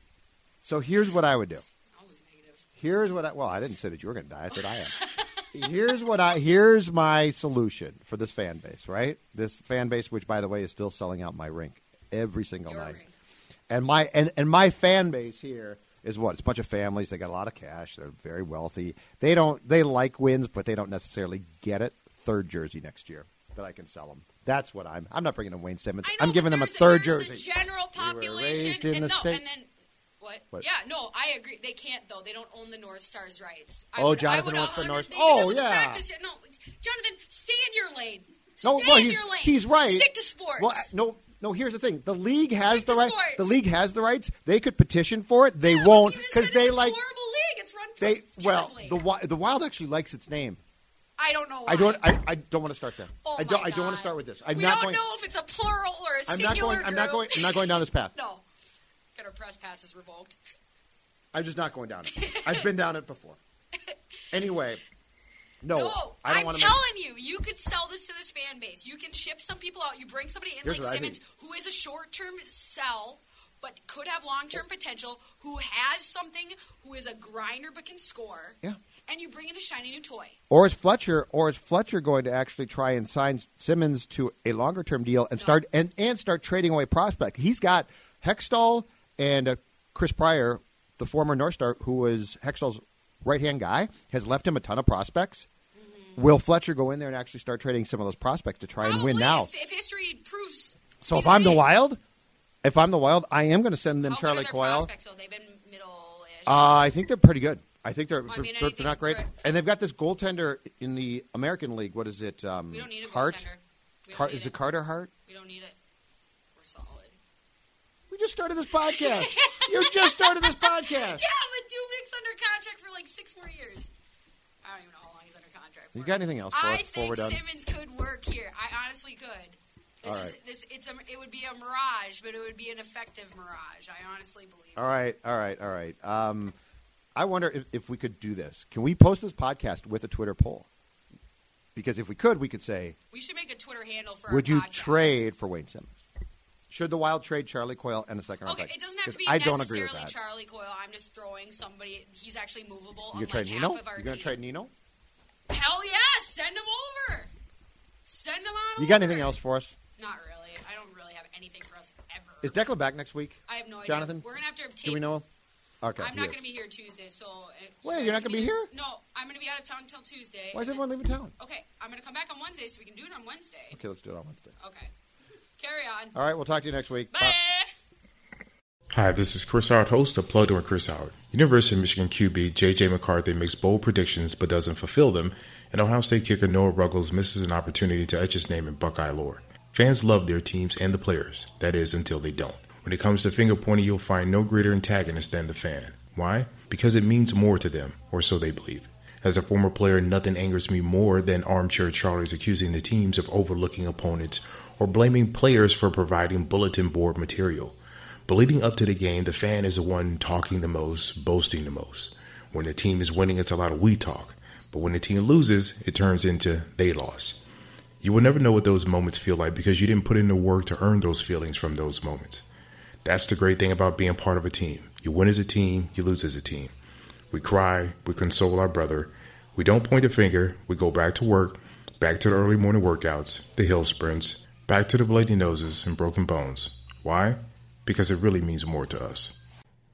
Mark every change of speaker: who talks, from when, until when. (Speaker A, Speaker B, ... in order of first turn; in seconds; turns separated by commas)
Speaker A: 0.6-1.6, Speaker B: 1.9-2.6, Speaker A: 2.8-13.0, Speaker B: 4.5-6.1, Speaker B: 12.7-13.1, Speaker A: 13.7-29.4, Speaker B: 26.0-29.7, Speaker B: 30.2-40.9, Speaker A: 34.0-36.0, Speaker A: 38.6-47.0, Speaker B: 42.6-43.6, Speaker B: 45.6-49.0, Speaker A: 48.0-50.6, Speaker B: 51.2-52.2, Speaker A: 51.6-55.0, Speaker B: 53.2-58.4, Speaker A: 56.3-58.1, Speaker B: 59.1-60.4, Speaker A: 61.3-63.4, Speaker B: 62.1-62.7, Speaker A: 64.3-64.8, Speaker A: 65.6-66.8, Speaker B: 65.7-80.4, Speaker A: 70.6-71.2, Speaker A: 80.5-95.5, Speaker B: 85.3-85.6, Speaker B: 95.7-96.3, Speaker A: 96.2-99.5, Speaker B: 98.8-101.7, Speaker A: 101.0-102.0, Speaker A: 102.6-104.9, Speaker B: 104.0-106.9, Speaker A: 106.5-113.5, Speaker B: 108.3-109.3, Speaker B: 112.7-114.6, Speaker A: 114.1-115.1, Speaker B: 115.2-115.8, Speaker B: 116.5-117.2, Speaker A: 118.1-121.2, Speaker B: 118.8-123.9, Speaker B: 124.6-134.9, Speaker A: 125.9-127.4, Speaker A: 130.0-130.3, Speaker A: 134.8-136.5, Speaker A: 137.1-140.7, Speaker A: 141.7-143.0, Speaker B: 143.1-145.3, Speaker A: 144.3-146.0, Speaker A: 146.7-150.1, Speaker B: 148.4-154.4, Speaker A: 153.1-154.7, Speaker B: 155.5-157.3, Speaker B: 158.1-159.4, Speaker A: 158.8-159.8, Speaker B: 159.9-162.6, Speaker A: 162.4-164.2, Speaker B: 163.5-165.1, Speaker A: 164.8-165.2, Speaker A: 165.8-166.4, Speaker B: 165.9-173.8, Speaker A: 167.8-168.7, Speaker A: 170.5-171.3, Speaker A: 173.7-174.6, Speaker B: 174.6-174.9, Speaker B: 175.6-176.2, Speaker A: 176.1-177.3, Speaker B: 177.1-177.7, Speaker C: 178.9-207.8, Speaker C: 208.3-217.4, Speaker C: 218.0-222.4, Speaker C: 223.0-226.7, Speaker C: 227.3-239.4